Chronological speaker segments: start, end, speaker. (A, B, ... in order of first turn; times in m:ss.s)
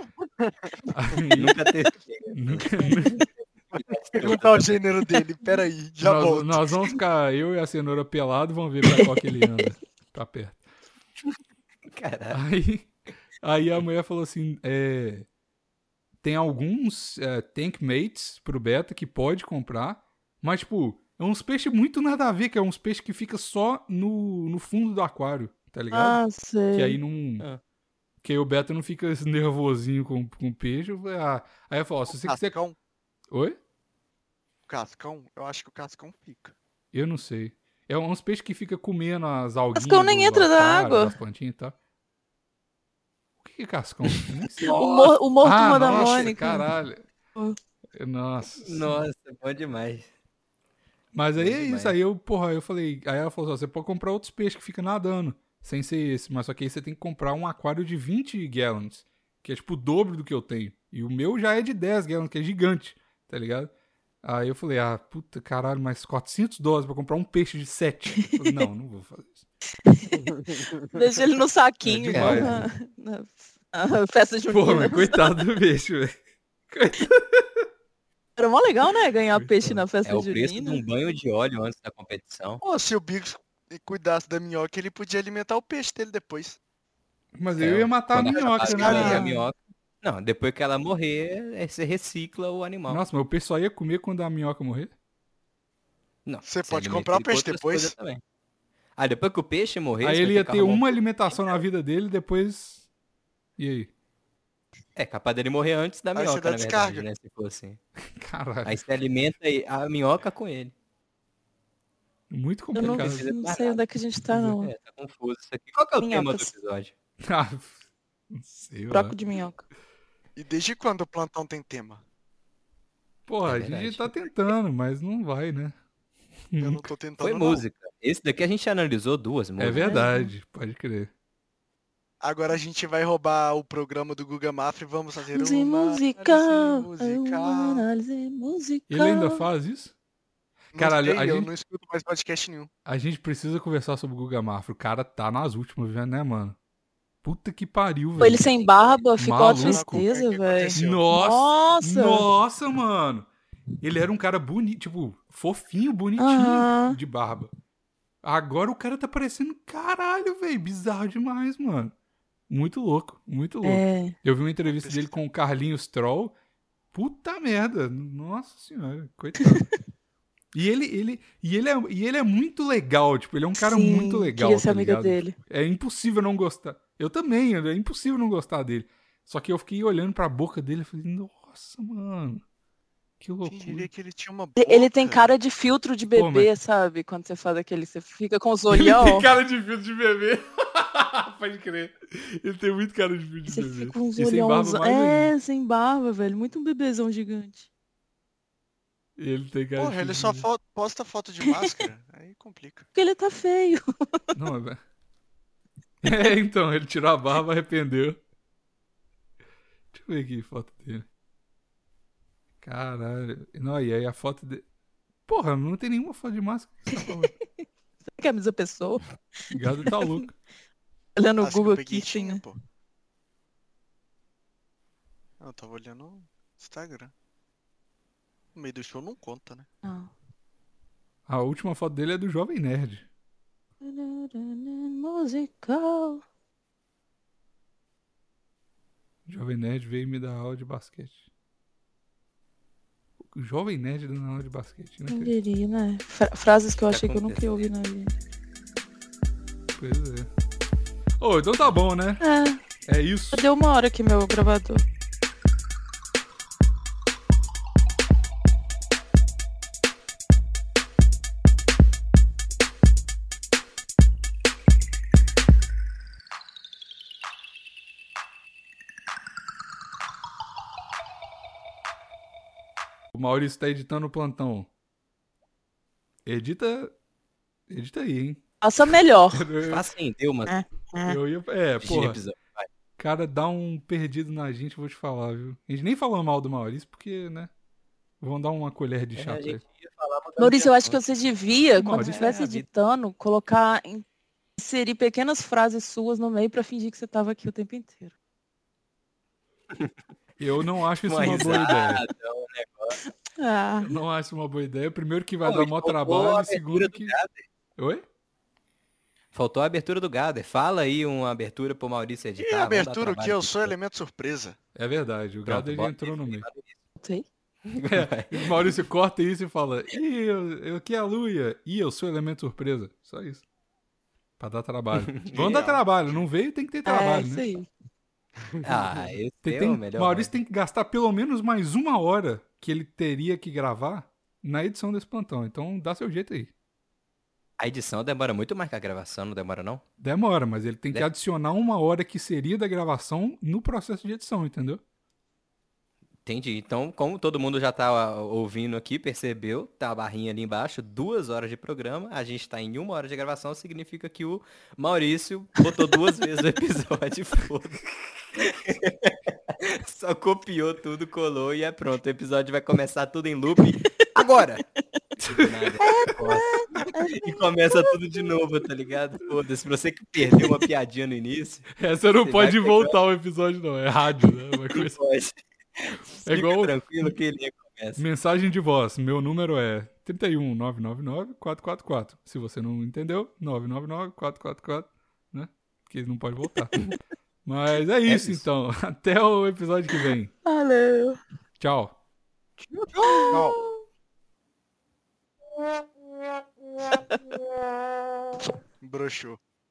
0:00.4-0:00.8 A
0:00.9-0:01.6 B
0:01.4-0:04.7 C
0:02.3-0:03.2 B
0:03.8-0:06.8 A
0:06.0-0:10.6 B
0:11.8-0:12.4 C
0:12.3-0:12.9 B
0:13.4-0:15.3 B
0:16.2-0:26.2 B
0:25.9-0:27.0 D
0:26.7-0:27.5 B
0:28.2-0:32.6 B
0:32.1-0:32.8 A
0:33.3-0:33.6 B
0:34.7-0:36.5 A
0:36.9-0:41.7 B
0:39.8-0:41.2 D
0:43.4-0:44.7 B
0:44.5-0:45.2 C
0:44.6-0:46.6 D
0:45.4-0:47.0 B
0:48.0-0:48.9 B
0:48.6-0:50.1 C
0:51.1-1:03.7 B
0:51.4-0:52.0 C
1:04.2-1:09.5 B
1:08.4-1:08.7 D
1:09.8-1:15.3 D
1:11.8-1:12.6 B
1:12.1-1:12.6 C
1:14.5-1:16.2 B
1:16.7-1:17.7 B
1:18.4-1:20.8 D
1:19.3-1:19.8 B
1:20.0-1:22.6 C
1:22.6-1:26.6 A
1:27.4-1:29.2 B
1:27.6-1:33.0 C
1:28.4-1:29.3 A
1:28.9-1:29.4 D
1:32.9-1:34.9 B
1:36.3-1:38.2 C
1:36.4-1:38.0 A
1:39.0-1:41.6 C
1:40.0-1:42.8 B
1:43.6-1:43.9 B
1:45.0-1:47.8 C
1:46.2-1:47.1 A
1:48.2-1:48.8 B
1:48.6-1:50.7 C
1:52.3-1:53.3 B
1:52.8-1:54.7 D
1:52.8-1:53.8 C
1:54.6-1:56.9 C
1:56.0-1:56.5 D
1:57.2-1:57.7 B
1:58.3-1:59.2 B
1:58.9-1:59.6 D
2:00.4-2:02.0 A
2:03.3-2:05.8 B
2:03.4-2:04.2 C
2:06.5-2:06.9 B
2:06.6-2:07.6 A
2:07.2-2:10.0 C
2:09.6-2:11.1 B
2:09.8-2:10.3 D
2:12.2-2:17.9 A
2:15.3-2:19.4 D
2:18.9-2:19.9 B
2:20.7-2:21.5 B
2:20.7-2:22.7 A
2:22.9-2:26.6 B
2:27.2-2:28.4 B
2:28.2-2:32.3 D
2:28.2-2:29.2 C
2:29.2-2:30.1 B
2:29.4-2:31.1 A
2:30.8-2:33.3 B
2:33.8-2:37.5 B
2:36.2-2:37.0 D
2:38.2-2:41.9 B
2:42.5-2:46.3 B
2:43.6-2:44.2 D
2:44.7-2:45.2 A
2:46.9-2:49.7 B
2:49.4-2:49.7 D
2:50.5-3:02.4 B
2:53.6-2:55.4 D
3:03.2-3:03.9 B
3:03.5-3:05.3 A
3:04.6-3:09.3 D
3:06.1-3:06.5 B
3:08.7-3:15.3 B
3:13.5-3:17.7 D
3:19.2-3:20.5 B
3:19.8-3:22.9 A
3:23.0-3:24.3 D
3:24.4-3:24.8 B
3:26.0-3:28.2 B
3:29.9-3:31.1 B
3:32.6-3:34.6 B
3:35.3-3:37.3 B
3:38.1-3:40.2 D
3:39.5-3:40.3 B
3:41.2-3:42.4 D
3:41.4-3:42.6 A
3:45.4-3:47.1 A
3:48.6-3:49.7 A
3:49.8-3:50.1 D
3:51.3-3:53.1 B
3:53.8-3:56.2 D
3:59.3-4:01.2 B
4:03.3-4:05.3 B
4:05.1-4:08.1 D
4:06.9-4:07.7 C
4:09.8-4:10.3 B
4:11.2-4:12.2 B
4:12.2-4:12.6 D
4:12.9-4:13.4 B
4:13.3-4:14.8 D
4:33.1-4:34.7 B
4:36.2-4:36.9 B
4:37.7-4:38.4 B
4:38.6-4:39.4 D
4:39.3-4:39.8 B
4:39.7-4:40.6 C
4:40.5-4:41.2 D
4:41.0-4:42.2 B
4:41.8-4:42.7 C
4:43.0-4:47.5 B
4:48.2-4:49.6 B
4:49.2-4:51.0 C
4:50.4-4:54.0 D
4:51.8-4:52.4 B
4:52.0-4:52.6 C
4:54.6-4:58.1 D
5:00.4-5:02.0 B
5:01.0-5:03.0 C
5:03.3-5:03.9 D
5:03.9-5:07.1 B
5:05.4-5:07.4 C
5:07.8-5:08.0 B
5:09.3-5:13.8 C
5:12.4-5:14.6 A
5:14.8-5:16.5 B
5:15.5-5:16.8 C
5:17.0-5:17.3 D
5:17.7-5:18.7 C
5:17.9-5:23.4 B
5:24.4-5:27.5 B
5:25.1-5:25.8 C
5:25.3-5:26.2 A
5:26.8-5:27.7 D
5:28.5-5:29.1 A
5:28.6-5:30.4 C
5:29.4-5:36.5 B
5:37.6-5:39.8 C
5:40.0-5:44.8 B
5:46.2-6:04.6 C
6:05.2-6:05.5 B
6:05.3-6:11.7 C
6:05.8-6:08.0 D
6:11.8-6:15.0 B
6:12.2-6:13.0 C
6:14.7-6:18.0 C
6:16.2-6:17.1 B
6:18.0-6:26.8 B
6:27.4-6:30.3 B
6:28.1-6:28.5 C
6:30.4-6:31.2 D
6:31.6-6:31.9 B
6:32.6-6:33.4 C
6:33.0-6:33.8 D
6:33.3-6:33.6 A
6:36.8-6:37.4 D
6:38.8-6:39.4 A